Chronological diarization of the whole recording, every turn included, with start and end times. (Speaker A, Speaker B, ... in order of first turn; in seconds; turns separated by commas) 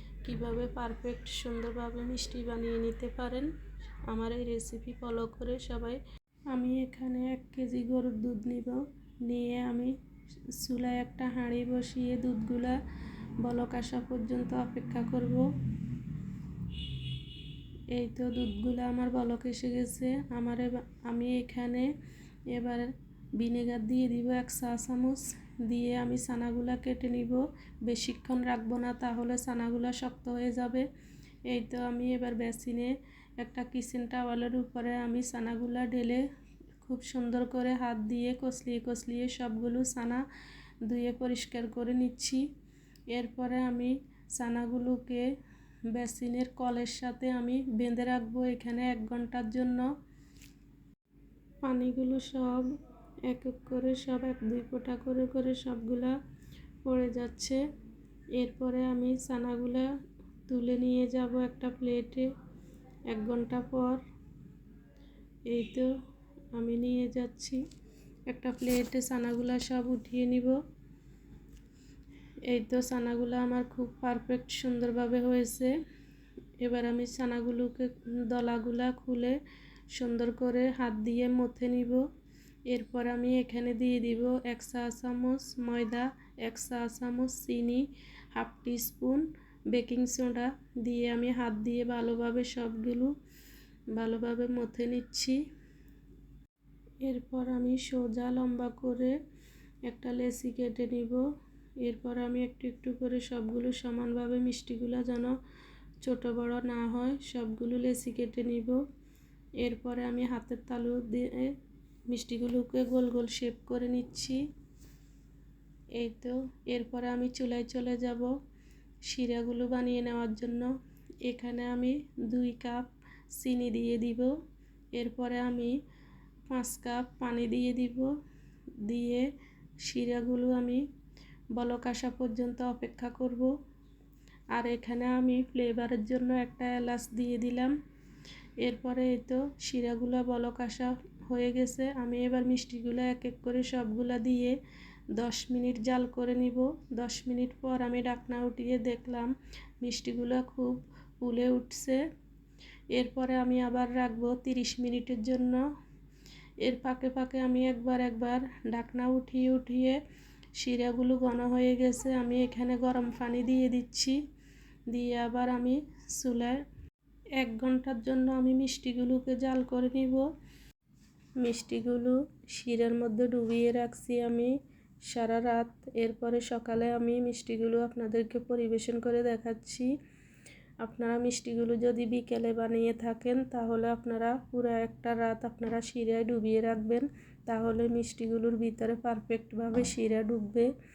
Speaker A: 0.2-3.5, Speaker A: 4.0-6.0, Speaker A: 6.5-9.9, Speaker A: 10.5-12.8, Speaker A: 13.4-15.5, Speaker A: 17.9-21.9, Speaker A: 22.5-30.9, Speaker A: 31.5-36.2, Speaker A: 36.8-40.2, Speaker A: 40.8-42.5, Speaker A: 43.1-45.3, Speaker A: 45.9-49.9, Speaker A: 51.6-52.7, Speaker A: 53.2-56.2, Speaker A: 56.8-57.6, Speaker A: 58.3-59.9, Speaker A: 60.5-62.3, Speaker A: 63.1-64.0, Speaker A: 65.5-65.9, Speaker A: 66.5-67.6, Speaker A: 68.3-70.6, Speaker A: 72.5-75.8, Speaker A: 76.6-79.4, Speaker A: 79.9-82.0, Speaker A: 82.7-93.1, Speaker A: 93.9-95.4, Speaker A: 97.0-99.2, Speaker A: 99.9-101.2, Speaker A: 101.8-105.3, Speaker A: 106.0-108.8, Speaker A: 109.6-111.5, Speaker A: 112.1-114.4, Speaker A: 115.9-118.3, Speaker A: 119.0-120.7, Speaker A: 121.2-124.3, Speaker A: 124.9-125.8, Speaker A: 126.5-128.1, Speaker A: 128.8-129.3, Speaker A: 129.8-130.8, Speaker A: 131.5-133.5, Speaker A: 134.5-137.8, Speaker A: 138.6-144.6, Speaker A: 145.1-152.0, Speaker A: 152.9-155.7, Speaker A: 156.6-160.0, Speaker A: 160.6-164.2, Speaker A: 164.9-166.6, Speaker A: 167.4-170.3, Speaker A: 171.4-179.9, Speaker A: 180.8-190.7